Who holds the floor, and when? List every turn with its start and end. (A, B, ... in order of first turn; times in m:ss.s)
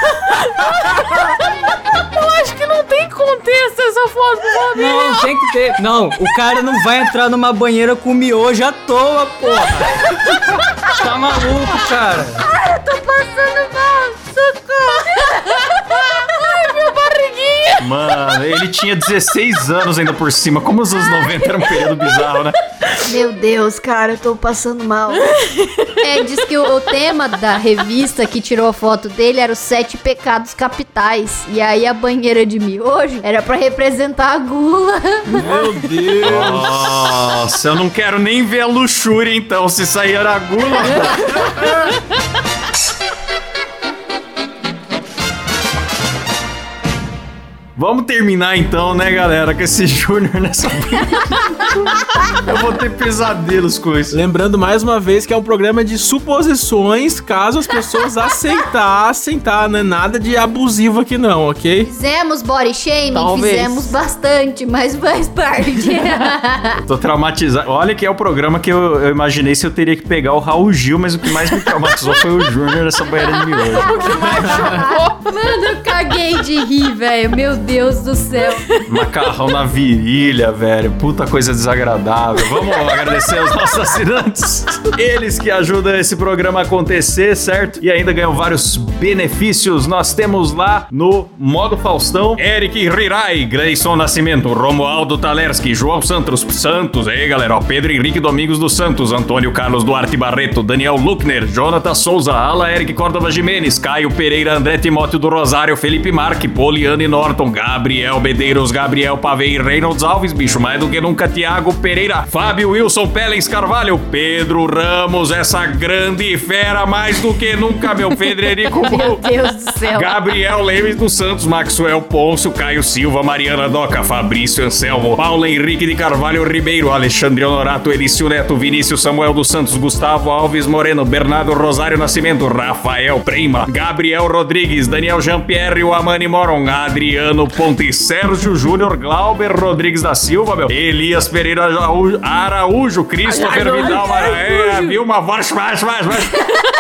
0:00.2-0:05.4 A
0:04.7-0:09.8 B
0:10.9-0:12.4 B
0:12.5-0:16.8 C
0:16.2-0:17.8 A
0:17.8-0:22.6 D
0:23.0-0:25.4 C
0:25.2-0:26.0 A
0:26.0-0:35.8 C
0:35.2-0:37.1 E
0:36.2-0:41.7 D
0:47.8-0:54.2 D
0:54.1-1:01.9 E
1:01.8-1:06.8 C
1:03.1-1:03.9 A
1:06.8-1:14.4 D
1:13.7-1:18.8 C
1:13.7-1:15.3 A
1:18.9-1:59.2 D
1:58.7-2:00.1 C
1:59.9-2:26.4 D
2:23.3-2:24.9 A